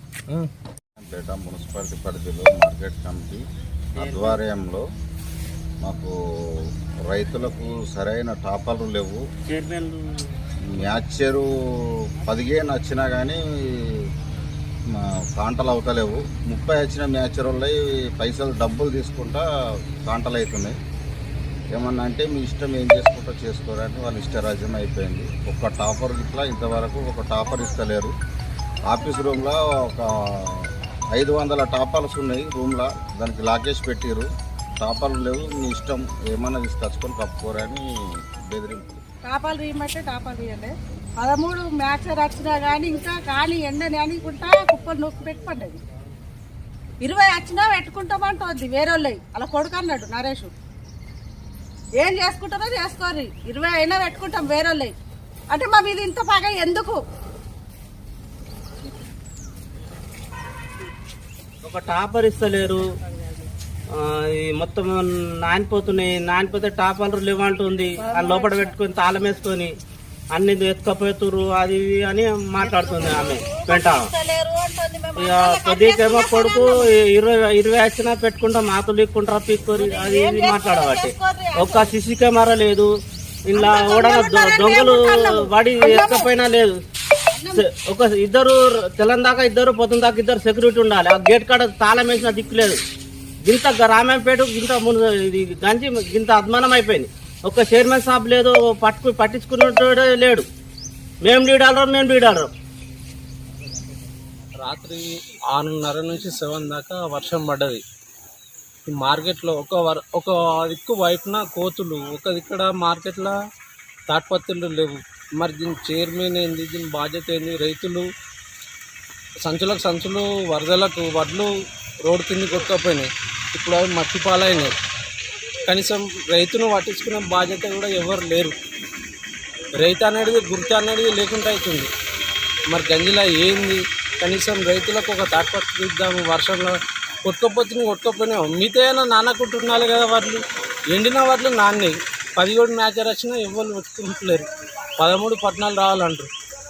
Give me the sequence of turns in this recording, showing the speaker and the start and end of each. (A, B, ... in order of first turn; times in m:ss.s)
0:01.0-0:03.4 A
0:04.0-0:04.8 A
0:04.0-0:04.4 B
0:05.8-0:09.2 A
0:09.5-0:10.3 B
0:10.7-0:11.5 A
0:12.2-0:14.0 A
0:14.9-0:19.4 A
0:20.0-0:20.8 A
0:21.7-0:28.1 A
0:28.8-0:34.3 A
0:34.8-0:39.0 A
0:39.2-0:45.8 C
0:47.0-0:50.5 C
0:52.0-0:54.9 C
0:55.5-0:57.0 C
1:01.6-1:02.8 B
1:03.9-1:09.8 B
1:08.0-1:08.7 C
1:10.3-1:14.1 B
1:12.6-1:16.9 C
1:15.2-1:22.9 B
1:19.7-1:21.9 C
1:23.4-1:26.7 B
1:23.5-1:26.3 C
1:27.3-1:27.6 C
1:27.5-1:32.8 B
1:33.4-1:40.4 B
1:41.2-1:42.5 B
1:44.6-1:47.8 D
1:48.9-1:53.4 D
1:54.1-1:58.1 D
1:59.4-2:01.5 D
2:02.0-2:04.7 D
2:05.7-2:08.6 D
2:09.8-2:11.9 D
2:12.7-2:16.7 D
2:17.2-2:24.4 D
2:25.0-2:26.3 D